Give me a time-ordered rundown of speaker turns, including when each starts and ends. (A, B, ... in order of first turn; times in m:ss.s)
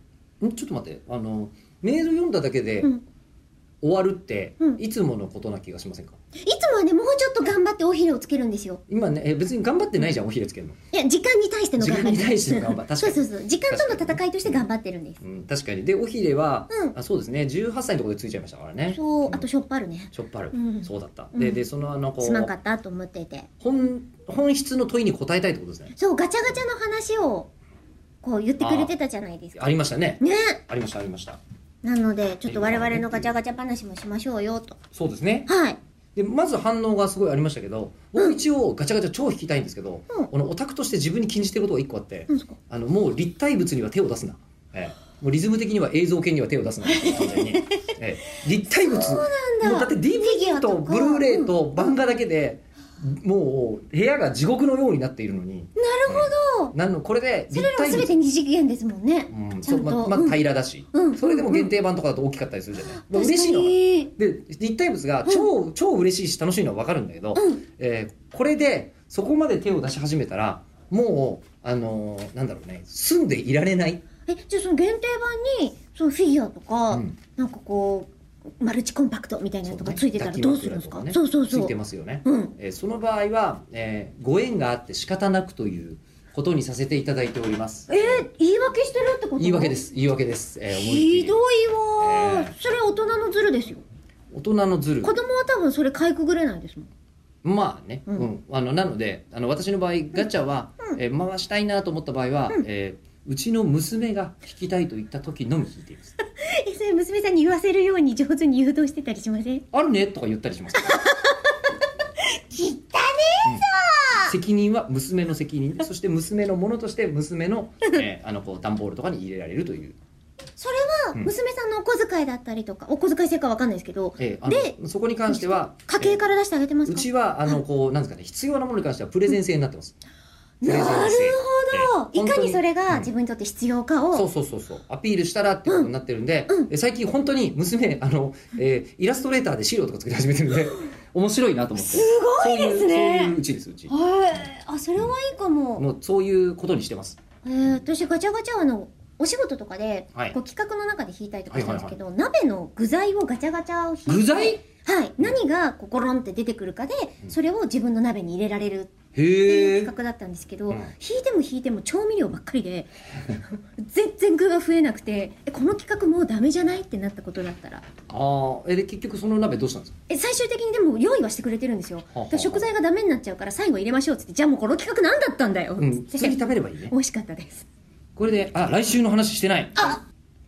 0:00.4-0:02.9 A
0:03.8-0:06.2 A
0:06.4-0:08.8 B
0:08.9-0:10.8 A
0:10.9-0:15.2 B
0:11.8-0:14.7 A
0:15.2-0:19.5 A
0:18.9-0:21.6 B
0:20.1-0:22.5 A
0:22.2-0:23.5 B
0:23.6-0:25.9 A
0:26.0-0:27.5 B
0:28.2-0:30.6 B
0:28.6-0:28.9 A
0:29.6-0:31.4 A
0:31.8-0:34.8 B
0:32.5-0:33.4 A
0:35.0-0:35.5 A
0:35.5-0:35.8 B
0:36.2-0:58.1 A
0:42.3-0:42.6 B
0:46.8-0:47.9 B
0:48.8-0:52.0 B
0:55.8-0:56.8 B
0:57.5-1:00.4 B
0:59.3-1:14.0 A
1:00.9-1:01.7 B
1:02.9-1:04.1 B
1:07.4-1:07.6 B
1:14.3-1:18.1 B
1:16.9-1:17.2 A
1:18.6-1:21.7 B
1:19.6-1:28.3 A
1:22.2-1:22.5 B
1:27.9-1:29.8 B
1:29.4-1:31.4 A
1:30.7-1:33.8 B
1:32.0-1:32.5 A
1:34.3-1:35.2 A
1:35.0-1:36.9 B
1:37.4-1:46.2 A
1:46.4-1:49.6 B
1:49.7-1:51.0 A
1:50.8-1:51.5 B
1:52.2-1:54.3 B
1:53.4-2:00.0 A
2:00.6-2:04.8 B
2:04.2-2:06.2 A
2:05.3-2:07.6 B
2:06.9-2:10.0 A
2:10.6-2:14.3 B
2:10.6-2:13.1 A
2:14.1-2:23.9 A
2:21.8-2:23.4 B
2:23.9-2:25.8 B
2:25.8-2:27.2 A
2:27.4-2:47.9 B
2:31.5-2:32.0 A
2:34.1-2:34.6 A
2:39.2-2:39.9 A
2:48.1-2:49.9 A
2:50.1-2:57.7 B
2:52.1-2:52.7 A
2:55.8-2:56.9 A
2:58.2-3:00.0 A
2:59.8-3:00.0 B